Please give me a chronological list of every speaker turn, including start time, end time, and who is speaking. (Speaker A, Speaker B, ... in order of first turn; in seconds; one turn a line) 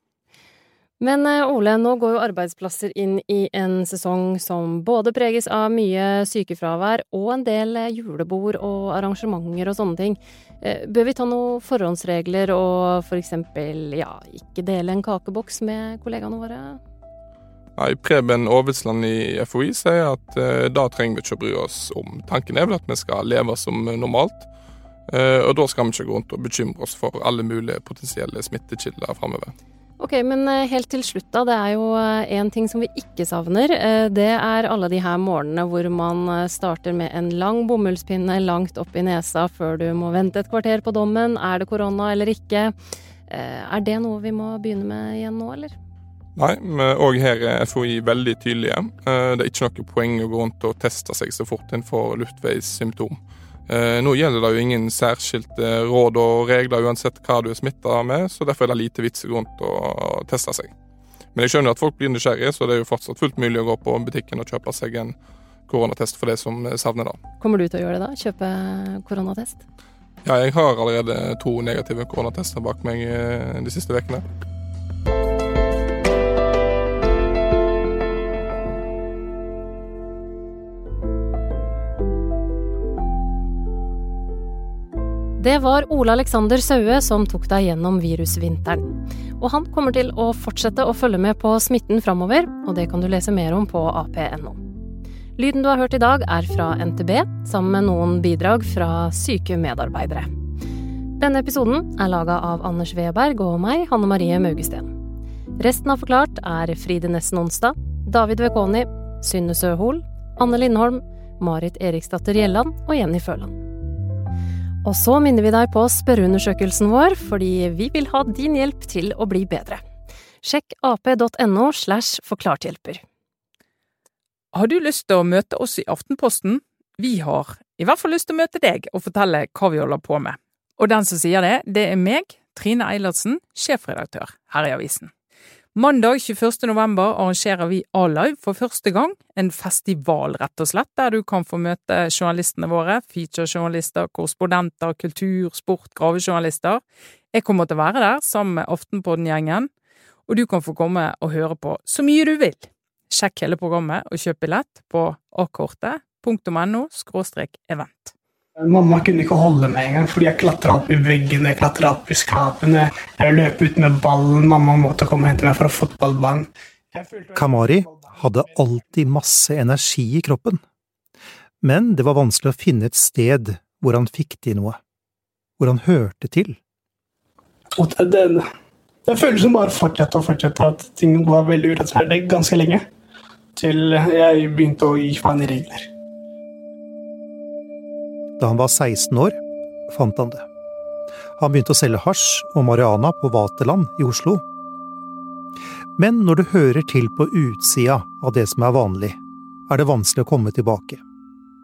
Speaker A: 1.0-16.8
Speaker B: 17.8-24.5
Speaker B: 25.1-29.5
Speaker A: 30.0-42.7
Speaker A: 43.3-45.7
Speaker B: 46.4-60.7
Speaker B: 61.3-65.1
Speaker B: 65.7-67.2
Speaker A: 67.4-69.6
Speaker B: 70.2-74.2
Speaker A: 85.4-94.6
Speaker A: 95.4-100.3
Speaker A: 101.2-104.9
Speaker A: 105.6-113.6
Speaker A: 114.8-119.8
Speaker A: 120.4-123.0
Speaker C: 124.5-135.1
Speaker C: 135.7-149.7
Speaker C: 150.3-158.1
Speaker D: 158.6-168.5
Speaker E: 167.3-170.6
Speaker E: 171.6-174.8
Speaker E: 175.6-176.6
Speaker D: 177.8-178.4
Speaker D: 179.1-182.8
Speaker D: 183.6-185.9
Speaker E: 188.4-190.4
Speaker E: 191.4-194.4
Speaker E: 196.0-199.2
Speaker E: 199.7-201.0